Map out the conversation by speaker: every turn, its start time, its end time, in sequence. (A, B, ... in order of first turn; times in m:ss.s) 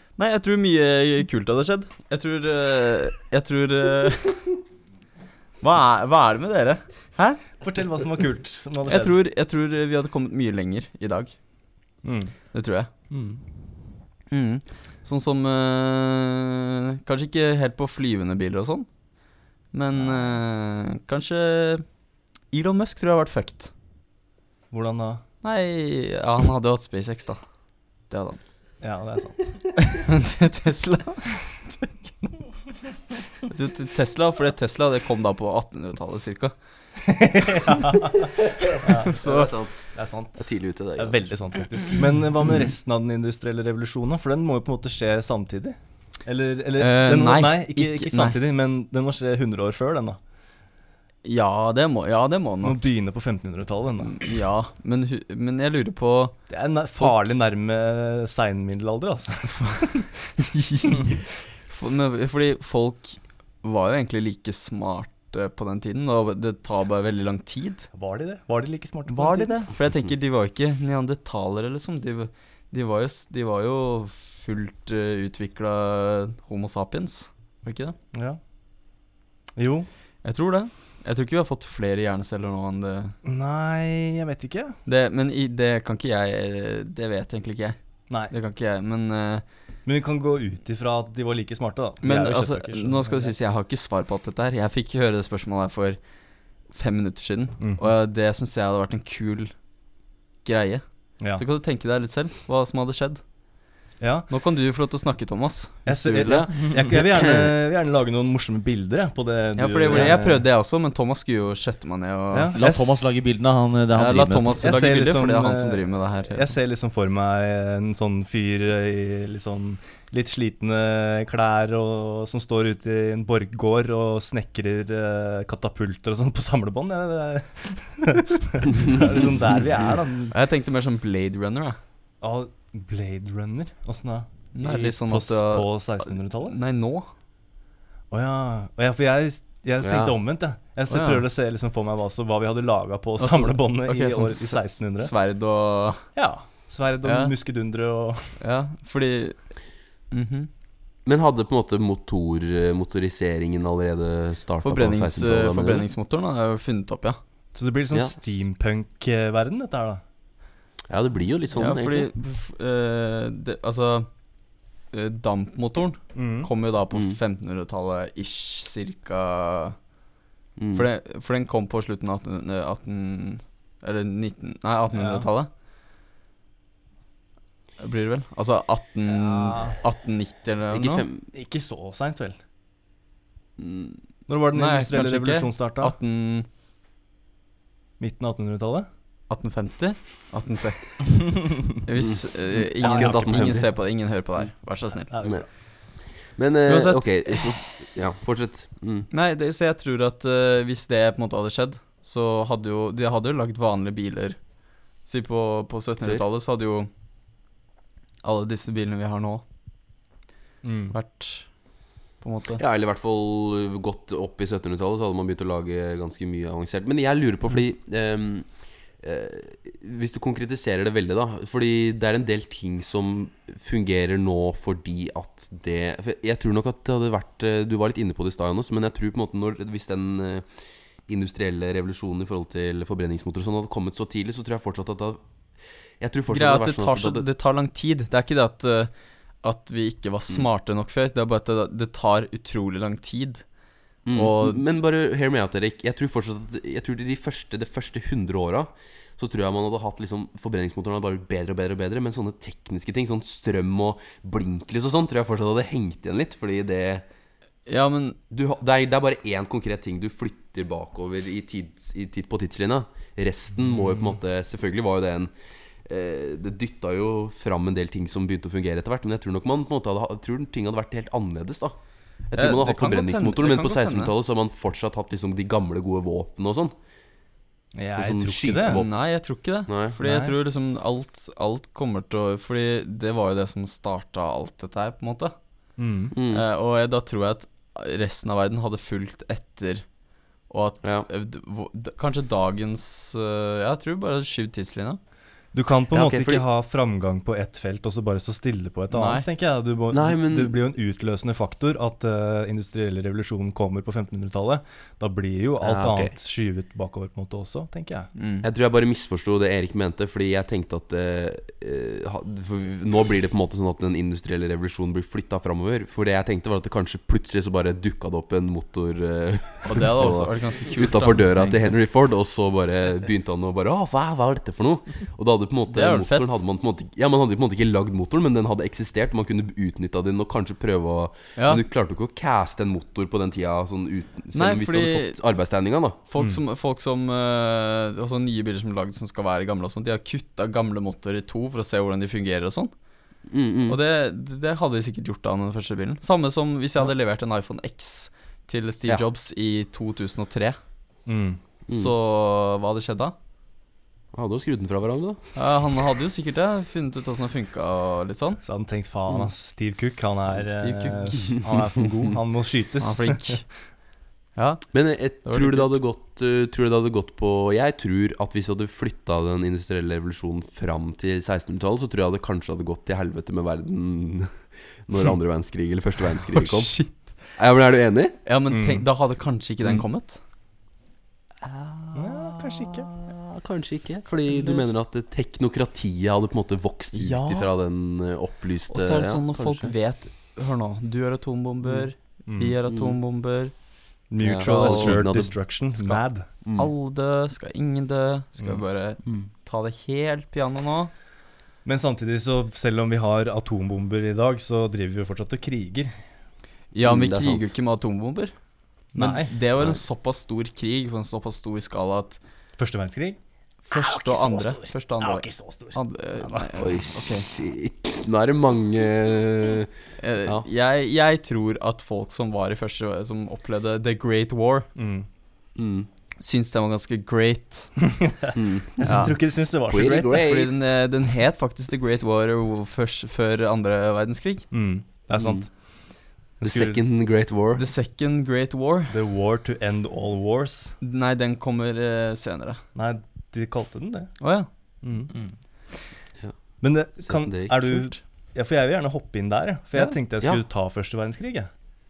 0:00.2-0:04.5 A
0:05.6-0:07.4 A
0:07.6-0:09.2 B
0:08.9-0:11.3 A
0:12.0-0:12.3 B
0:12.5-0:12.9 A
0:13.1-0:13.4 B
0:14.3-0:18.9 A
0:19.7-0:21.8 A
0:22.5-0:23.7 A
0:24.7-0:25.2 B
0:25.4-0:27.4 A
0:28.1-0:28.4 A
0:28.8-0:29.8 B
0:29.9-0:31.8 A
0:33.5-0:36.5 A
0:37.0-0:50.2 B
0:38.8-0:39.5 A
0:39.2-0:41.2 C
0:46.8-0:48.4 A
0:51.2-0:52.8 A
0:52.6-0:54.3 B
0:54.2-0:56.4 A
0:56.5-1:00.1 B
1:00.4-1:07.9 A
1:07.9-1:09.6 B
1:09.1-1:18.0 A
1:18.1-1:18.4 B
1:19.6-1:19.9 B
1:20.2-1:23.2 A
1:23.2-1:24.8 B
1:24.9-1:27.8 A
1:28.3-1:29.4 A
1:29.8-1:33.3 B
1:32.0-1:36.0 A
1:36.7-1:39.5 A
1:40.4-1:43.2 A
1:44.0-1:44.3 B
1:44.3-1:47.0 A
1:45.9-1:50.4 B
1:47.2-1:47.5 C
1:49.6-1:52.6 A
1:52.3-1:53.0 B
1:52.6-1:54.8 D
1:53.9-1:56.5 A
1:54.6-2:10.3 B
2:10.3-2:11.8 A
2:12.2-2:16.6 B
2:14.6-2:17.1 A
2:18.1-2:25.1 B
2:19.8-2:20.2 C
2:20.9-2:21.3 A
2:23.2-2:26.1 A
2:26.2-2:28.4 B
2:27.0-2:27.4 A
2:28.4-2:29.4 A
2:30.1-2:30.5 A
2:31.1-2:35.9 C
2:34.6-2:37.2 A
2:37.5-2:40.0 B
2:40.9-2:42.1 C
2:41.6-2:44.1 A
2:44.9-2:49.8 A
2:46.2-2:46.5 B
2:46.9-2:47.2 C
2:50.6-2:50.9 C
2:50.7-2:55.5 A
2:54.9-2:55.3 B
2:57.8-3:01.1 A
2:59.1-2:59.8 B
3:00.7-3:01.2 C
3:01.3-3:02.4 B
3:03.6-3:04.0 C
3:04.3-3:06.0 B
3:04.5-3:06.5 A
3:08.0-3:08.9 B
3:09.3-3:15.2 A
3:12.8-3:13.6 B
3:12.8-3:13.7 C
3:15.1-3:15.5 B
3:16.3-3:19.1 C
3:16.7-3:17.5 A
3:19.1-3:24.4 A
3:25.0-3:26.9 A
3:28.2-3:29.4 A
3:30.6-3:31.0 B
3:30.9-3:31.5 A
3:32.2-3:32.6 A
3:32.6-3:38.5 C
3:39.0-3:50.4 C
3:51.1-3:55.2 C
3:56.0-3:57.2 C
3:56.3-3:58.9 A
3:59.4-4:03.4 A
4:04.1-4:17.0 C
4:04.1-4:04.6 A
4:17.7-4:18.2 A
4:18.3-4:25.3 C
4:25.9-4:31.8 C
4:32.3-4:36.7 C
4:32.3-4:34.1 A
4:37.8-4:38.8 B
4:38.0-4:38.9 C
4:38.7-4:45.4 A
4:39.7-4:40.0 C
4:40.0-4:40.4 B
4:45.8-4:46.2 B
4:46.1-4:46.4 C
4:46.3-4:49.8 A
4:50.5-4:55.0 A
4:55.5-5:08.1 B
4:55.9-4:56.4 C
4:58.9-4:59.3 A
4:59.9-5:00.6 C
5:05.6-5:06.1 C
5:08.2-5:08.5 A
5:08.4-5:36.0 C
5:19.6-5:21.7 A
5:25.7-5:26.4 A
5:31.4-5:31.6 A
5:34.3-5:35.2 A
5:36.1-5:42.7 A
5:43.3-5:43.8 C
5:43.7-5:50.6 A
5:51.1-5:51.4 B
5:51.7-5:51.9 C
5:51.7-5:53.2 A
5:54.1-5:55.2 C
5:55.4-5:58.4 A
5:58.4-6:03.4 B
6:00.3-6:01.2 A
6:02.8-6:03.4 A
6:04.4-6:05.7 A
6:04.7-6:16.8 C
6:16.3-6:17.1 A
6:17.4-6:18.2 C
6:18.2-6:20.2 A
6:18.5-6:18.8 B
6:21.4-6:29.7 C
6:22.0-6:22.9 B
6:24.3-6:24.6 A
6:26.9-6:27.5 A
6:28.7-6:33.5 A
6:32.3-6:32.6 B
6:32.7-6:33.0 C
6:34.1-6:36.3 B
6:34.2-6:35.3 C
6:34.4-6:35.0 A
6:35.7-6:36.0 A
6:36.4-6:36.7 C
6:36.6-6:40.9 A
6:41.6-6:45.9 B
6:46.7-6:48.3 A
6:46.8-6:47.5 C
6:49.0-6:49.3 B
6:49.0-6:52.2 A
6:52.6-6:53.2 B
6:53.7-6:57.3 A
6:53.7-6:56.5 B
6:56.6-6:59.7 C
7:00.0-7:04.7 A
7:04.8-7:05.1 B
7:05.6-7:05.9 C
7:06.2-7:07.9 A
7:08.0-7:10.2 B
7:08.4-7:10.5 C
7:08.8-7:09.1 A
7:10.1-7:14.5 A
7:14.5-7:15.5 B
7:15.2-7:15.4 C
7:16.4-7:16.8 B
7:16.4-7:17.6 C
7:17.6-7:19.0 A
7:18.9-7:20.8 B
7:20.8-7:22.6 A
7:22.8-7:24.1 B
7:24.2-7:24.5 A
7:24.8-7:25.1 B
7:26.6-7:31.5 B
7:27.0-7:27.8 C